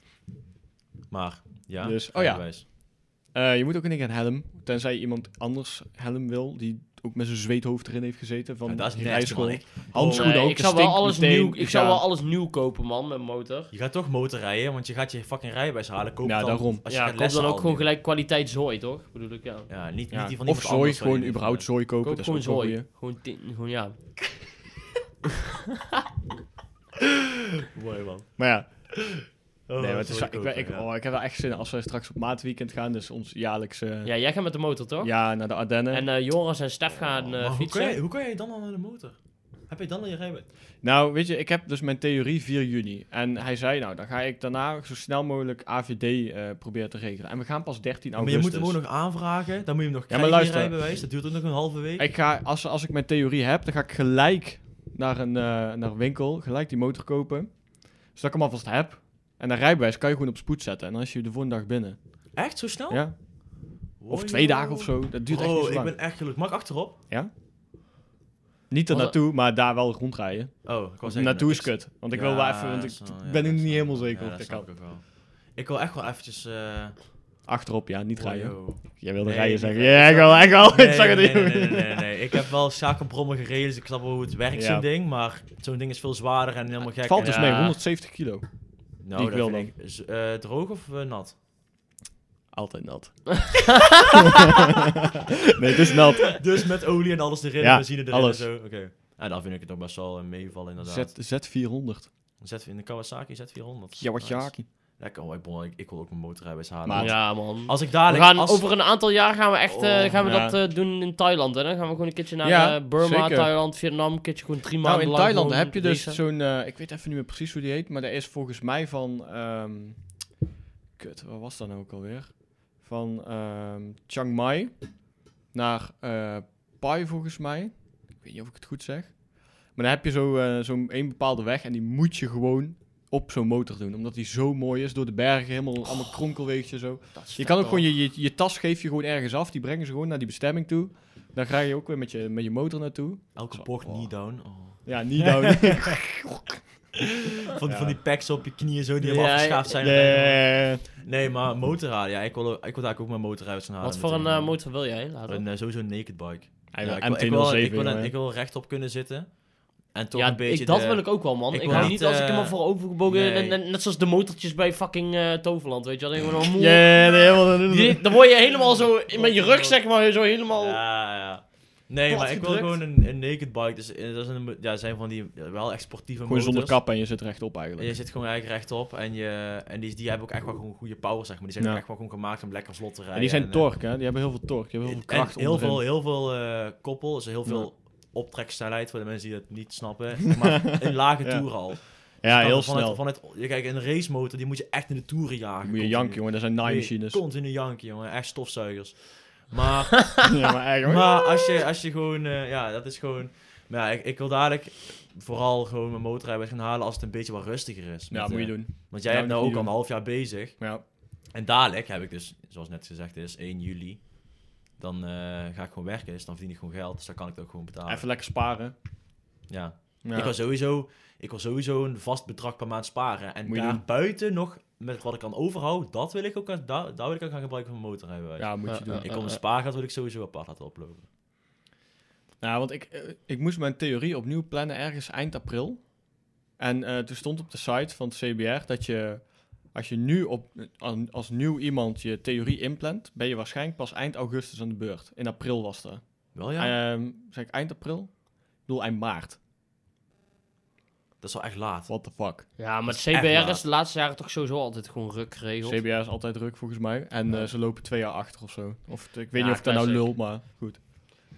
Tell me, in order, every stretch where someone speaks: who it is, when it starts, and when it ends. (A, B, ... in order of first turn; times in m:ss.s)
0:01.1-0:02.6 A
0:01.8-0:12.0 B
0:08.7-0:10.4 A
0:10.0-0:13.7 C
0:13.7-0:17.9 A
0:16.2-0:16.8 B
0:16.9-0:19.7 C
0:19.7-0:21.7 A
0:20.1-0:22.9 B
0:22.0-0:24.0 C
0:27.7-0:30.9 A
0:28.4-0:29.3 B
0:29.8-0:34.1 B
0:34.0-0:35.1 C
0:35.0-0:36.0 B
0:35.9-0:38.0 C
0:36.9-0:40.5 A
0:40.8-0:48.8 B
0:48.2-0:52.1 A
0:50.1-0:50.8 B
0:52.0-1:02.0 B
1:02.4-1:03.1 A
1:02.9-1:03.2 B
1:04.0-1:07.0 A
1:04.1-1:06.0 B
1:08.7-1:14.7 B
1:08.9-1:09.2 C
1:10.6-1:17.0 A
1:17.5-1:22.1 B
1:18.2-1:27.7 A
1:24.5-1:24.8 B
1:27.0-1:29.7 B
1:27.2-1:27.8 C
1:29.0-1:31.4 A
1:32.5-1:33.6 B
1:35.6-1:36.4 B
1:36.3-1:41.2 A
1:37.6-1:38.5 B
1:40.8-1:42.1 B
1:42.4-1:48.8 A
1:44.0-1:44.7 B
1:46.8-1:47.2 B
1:46.9-1:56.2 C
1:49.7-1:50.3 A
1:50.2-1:50.6 B
1:52.4-1:53.5 B
1:54.8-2:00.2 B
2:01.0-2:04.9 B
2:05.5-2:24.1 B
2:17.2-2:17.9 C
2:23.4-2:26.0 A
2:24.8-2:26.4 B
2:27.5-2:43.6 A
2:27.6-2:28.0 B
2:29.0-2:29.8 C
2:29.8-2:30.9 B
2:33.8-2:35.4 C
2:36.7-2:38.1 B
2:40.1-2:50.8 C
2:41.7-2:42.0 B
2:46.6-2:48.1 B
2:49.1-2:49.8 A
2:50.6-2:56.8 A
2:52.1-2:52.8 C
2:56.3-2:57.9 B
2:57.8-3:03.8 A
3:03.1-3:05.8 B
3:04.8-3:30.7 A
3:10.7-3:13.0 B
3:15.6-3:17.2 B
3:20.2-3:21.2 B
3:28.1-3:29.9 B
3:30.6-3:30.8 B
3:31.3-3:38.1 A
3:37.9-3:38.7 B
3:39.5-3:51.1 A
3:40.0-3:40.3 B
3:43.5-3:43.8 B
3:48.4-3:49.2 B
3:48.7-3:49.4 C
3:52.4-4:09.4 B
4:06.3-4:06.8 A
4:11.2-4:11.9 A
4:11.9-4:12.5 B
4:12.5-4:13.6 A
4:12.6-4:15.8 C
4:15.6-4:20.8 B
4:19.3-4:20.1 C